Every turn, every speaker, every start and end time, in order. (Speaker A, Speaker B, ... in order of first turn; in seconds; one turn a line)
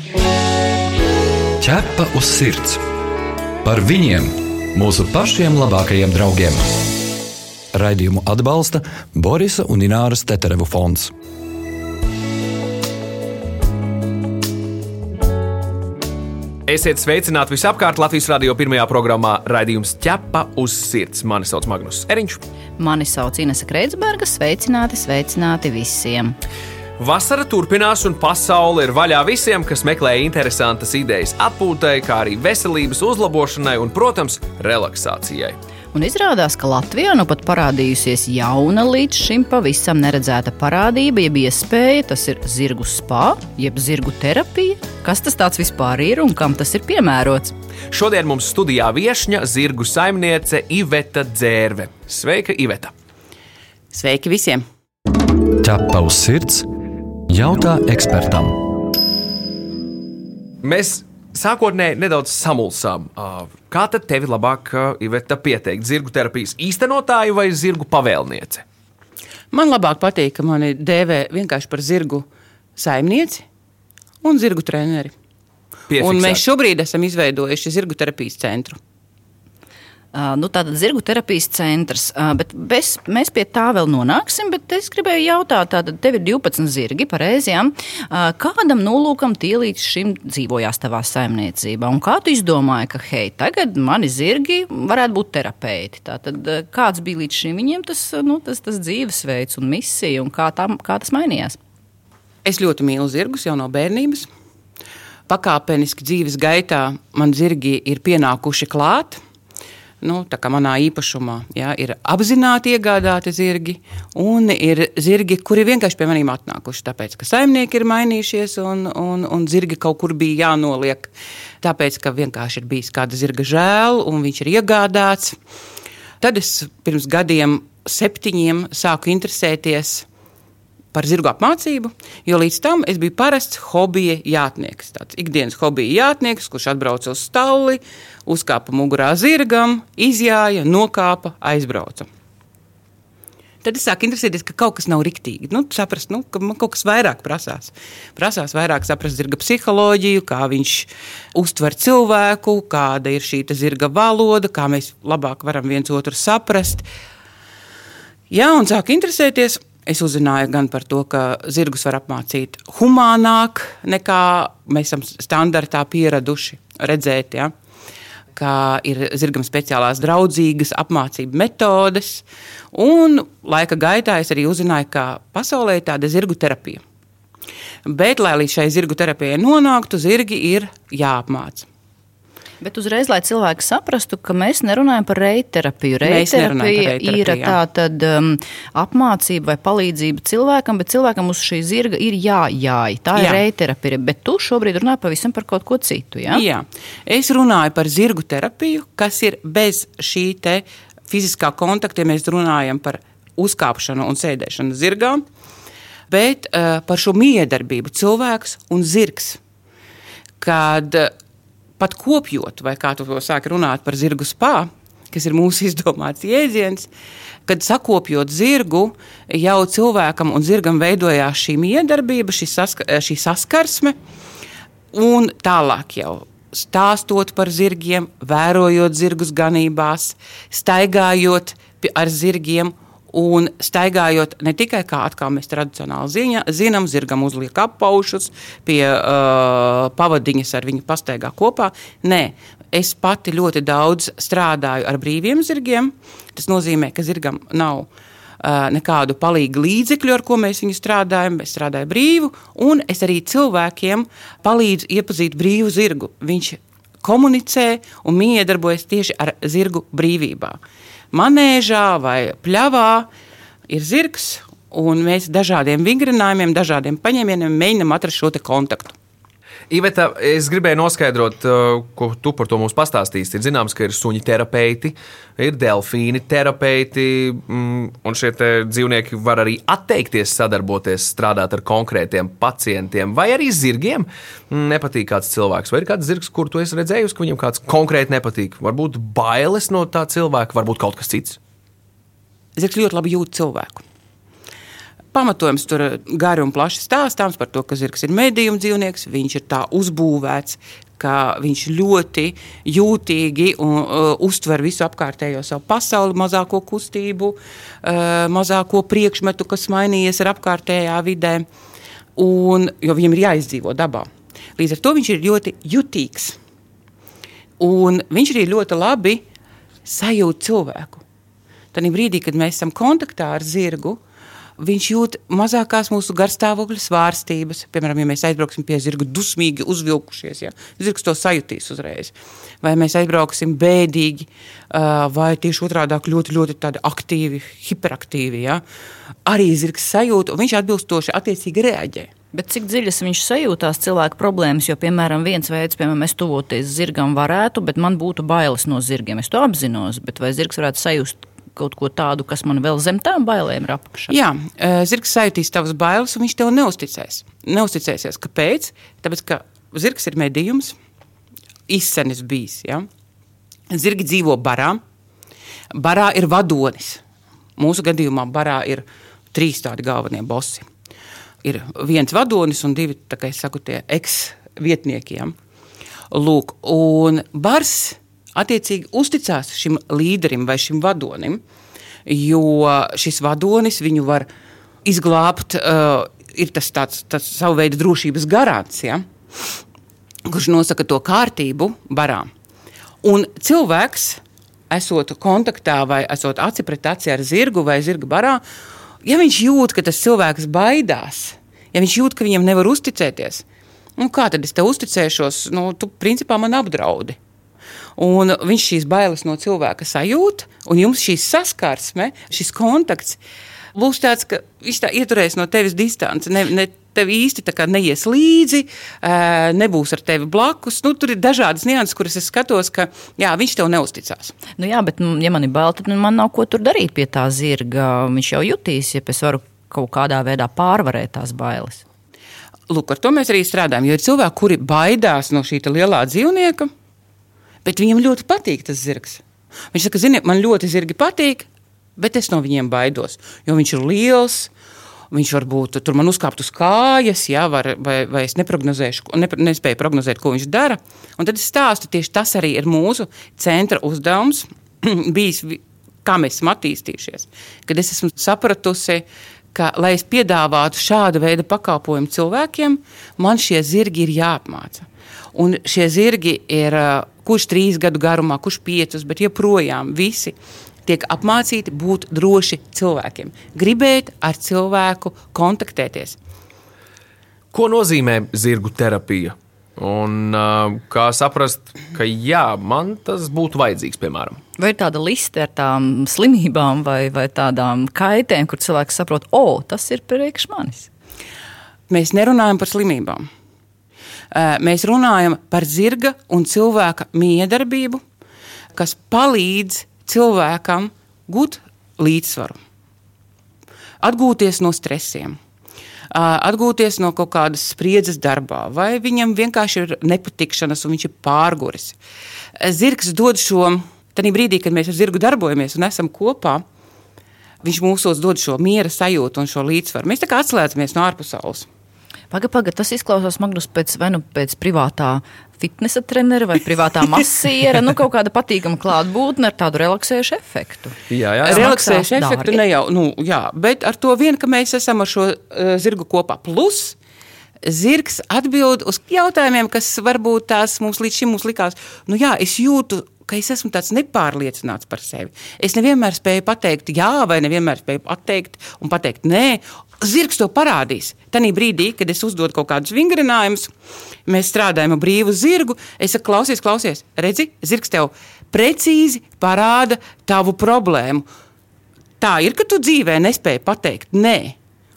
Speaker A: 1.6-2.8
Speaker A: 3.6-6.8
Speaker A: 7.7-11.1
Speaker B: 16.7-22.4
Speaker C: 22.8-26.4
Speaker B: 27.0-35.6
Speaker C: 35.9-47.5
Speaker B: 47.9-52.9
Speaker D: 53.9-54.6
Speaker A: 55.6-56.7
Speaker A: 57.3-58.6
Speaker B: 60.6-68.6
Speaker D: 69.5-72.2
Speaker D: 72.8-73.5
Speaker D: 74.2-75.1
Speaker B: 75.9-76.4
Speaker D: 76.0-78.8
Speaker C: 80.1-101.6
Speaker D: 102.5-104.3
Speaker D: 105.3-109.2
Speaker D: 110.0-125.4
Speaker D: 126.2-130.1
Speaker D: 130.9-142.1
Speaker D: 143.6-156.9
Speaker D: 158.3-167.5
Speaker D: 168.3-176.8
Speaker D: 177.9-181.7
Speaker C: 182.6-196.4
Speaker D: 186.0-187.6
Speaker D: 193.2-193.4
Speaker D: 196.3-205.2
Speaker D: 206.1-209.4
Speaker D: 210.4-211.1
Speaker D: 211.8-216.9
Speaker D: 217.5-224.0
Speaker D: 224.9-247.9
Speaker D: 248.4-260.6
Speaker D: 261.1-263.1
Speaker D: 263.7-268.9
Speaker B: 269.7-291.4
Speaker D: 292.6-293.8
Speaker D: 295.1-311.4
Speaker D: 312.2-316.4
Speaker D: 317.6-319.2
Speaker D: 319.9-321.0
Speaker D: 321.7-324.0
Speaker D: 324.6-338.6
Speaker D: 339.3-342.1
Speaker C: 342.3-354.1
Speaker D: 354.1-360.8
Speaker D: 361.7-362.9
Speaker D: 363.7-364.8
Speaker D: 365.7-367.0
Speaker D: 367.6-370.6
Speaker D: 371.4-375.4
Speaker D: 376.1-381.4
Speaker D: 382.1-384.3
Speaker D: 384.9-389.0
Speaker D: 390.3-392.3
Speaker D: 393.0-398.4
Speaker D: 399.1-403.4
Speaker D: 404.0-407.2
Speaker D: 408.0-413.2
Speaker D: 413.8-424.4
Speaker C: 424.6-431.8
Speaker D: 432.7-436.7
Speaker D: 437.6-444.5
Speaker D: 445.1-476.2
Speaker B: 477.5-484.4
Speaker C: 484.6-490.9
Speaker D: 491.9-493.3
Speaker D: 494.3-498.0
Speaker D: 498.8-502.6
Speaker D: 504.0-505.4
Speaker D: 506.1-512.0
Speaker D: 512.6-516.6
Speaker D: 517.6-521.7
Speaker C: 522.3-532.6
Speaker B: 531.1-531.7
Speaker D: 531.5-537.0
Speaker D: 537.6-553.7
Speaker D: 554.3-561.3
Speaker D: 562.2-564.6